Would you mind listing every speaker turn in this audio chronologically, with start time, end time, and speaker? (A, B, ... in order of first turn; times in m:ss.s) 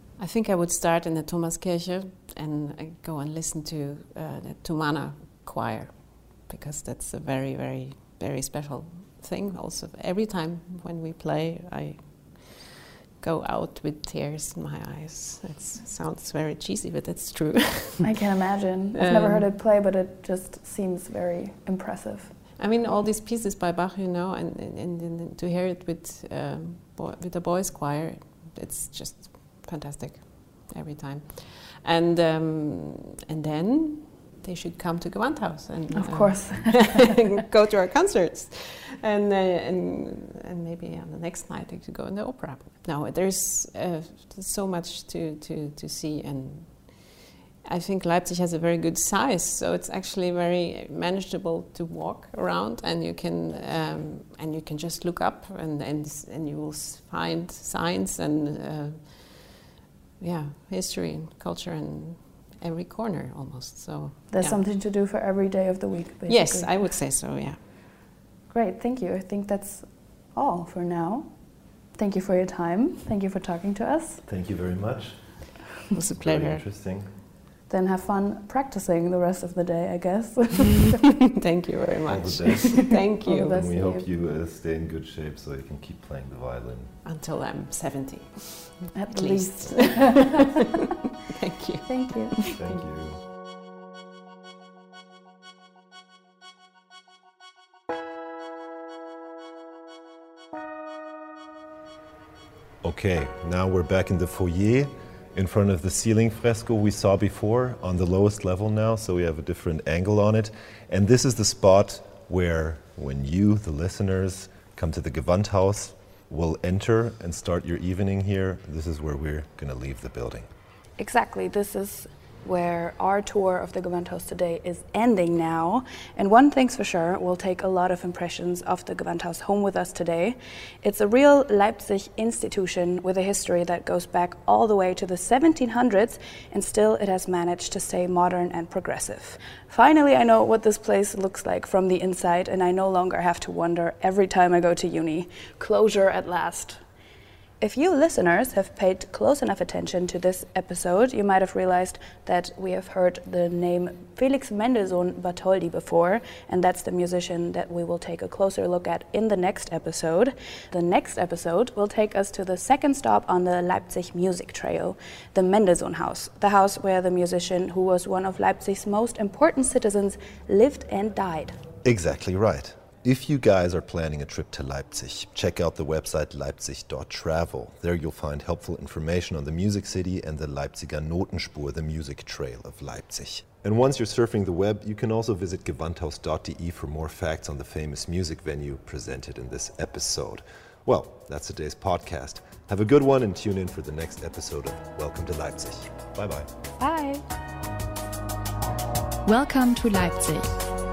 0:00.2-0:18.2 A
0:18.0-0:22.3 B
0:18.9-0:19.4 A
0:22.6-0:59.6 A
0:35.9-0:37.1 B
1:00.2-1:04.6 A
1:04.3-1:06.9 B
1:06.3-1:07.6 A
1:08.5-1:11.4 B
1:11.9-1:14.2 B
1:14.2-1:15.6 C
1:15.9-1:16.6 A
1:16.2-1:17.1 C
1:17.7-1:21.1 B
1:21.4-1:23.5 A
1:22.1-1:26.9 C
1:23.2-1:24.1 B
1:27.0-1:30.5 A
1:28.9-1:30.3 B
1:31.3-1:32.5 A
1:31.8-1:32.8 B
1:32.5-1:33.2 C
1:42.8-2:00.5 C
2:01.0-2:26.8 B
2:27.6-2:51.6 B
2:51.8-3:16.5 C
3:16.8-3:17.2 B
3:19.2-3:20.6 B